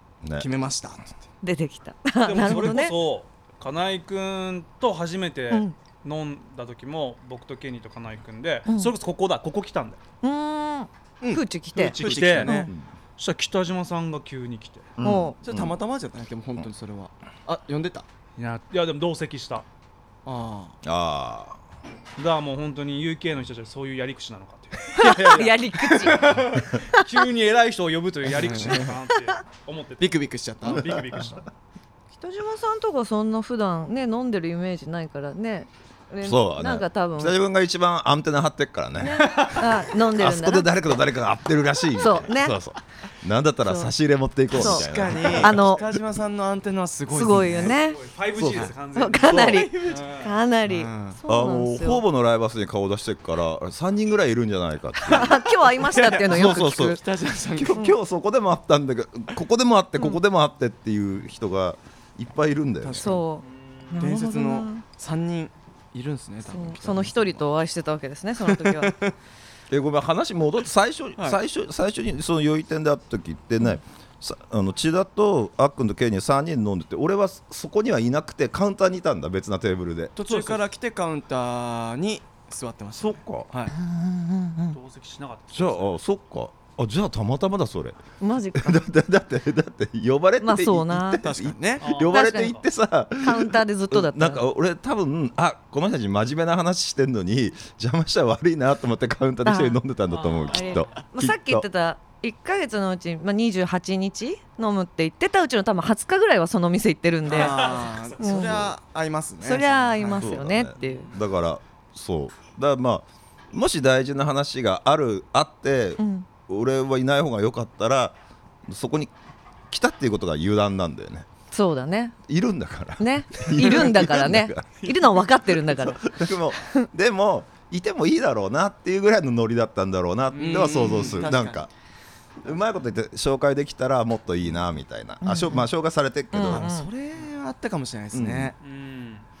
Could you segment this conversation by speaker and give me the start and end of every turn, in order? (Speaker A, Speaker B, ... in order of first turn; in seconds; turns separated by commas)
Speaker A: 0.2-0.5, Speaker B: 0.4-1.3, Speaker C: 1.4-3.0, Speaker D: 2.2-10.0, Speaker C: 8.7-8.9, Speaker C: 10.2-12.7, Speaker B: 11.2-12.7, Speaker D: 11.8-12.5, Speaker A: 12.0-12.9, Speaker D: 13.2-14.9, Speaker A: 15.0-15.8, Speaker C: 15.0-15.4, Speaker B: 15.4-18.1, Speaker D: 18.4-19.6, Speaker B: 20.2-20.8, Speaker A: 20.8-21.6, Speaker D: 22.2-31.5, Speaker C: 24.9-27.1, Speaker B: 25.0-25.5, Speaker B: 28.2-28.9, Speaker B: 30.0-30.9, Speaker C: 32.2-37.3, Speaker A: 36.2-45.8, Speaker C: 39.0-40.7, Speaker C: 41.9-42.6, Speaker C: 43.6-43.9, Speaker B: 44.5-47.7, Speaker C: 44.5-45.9, Speaker C: 47.1-48.0, Speaker D: 47.6-50.4, Speaker A: 48.3-48.7, Speaker B: 48.4-50.0, Speaker C: 48.9-52.0, Speaker B: 50.6-51.2, Speaker A: 51.2-55.4, Speaker C: 55.0-57.0, Speaker B: 55.7-57.8, Speaker A: 56.3-57.0, Speaker A: 57.5-63.2, Speaker B: 62.8-63.2, Speaker C: 63.0-64.8, Speaker D: 63.4-64.0, Speaker B: 64.0-67.5, Speaker C: 66.5-68.9, Speaker B: 68.4-69.1, Speaker A: 69.7-80.1, Speaker B: 80.2-83.7, Speaker D: 80.2-80.6, Speaker A: 83.0-83.5, Speaker C: 83.7-84.8, Speaker D: 84.7-86.0, Speaker A: 85.5-88.0, Speaker C: 88.2-88.8, Speaker A: 88.5-101.6, Speaker C: 90.4-91.2, Speaker B: 91.1-91.8, Speaker D: 91.8-92.6, Speaker C: 92.1-92.6, Speaker C: 93.2-94.4, Speaker C: 99.5-99.8, Speaker D: 100.1-101.0, Speaker C: 100.5-108.7, Speaker D: 107.2-108.6, Speaker B: 107.3-110.3, Speaker C: 109.4-111.1, Speaker A: 110.0-119.1, Speaker D: 110.8-111.2, Speaker C: 116.0-116.3, Speaker A: 119.7-121.3, Speaker C: 121.5-122.2, Speaker A: 122.2-124.9, Speaker C: 123.0-126.9, Speaker A: 125.7-131.7, Speaker B: 130.3-131.6, Speaker A: 132.4-136.7, Speaker C: 135.2-135.7, Speaker C: 136.3-136.9, Speaker B: 136.4-138.6, Speaker A: 138.1-138.5, Speaker D: 138.6-139.2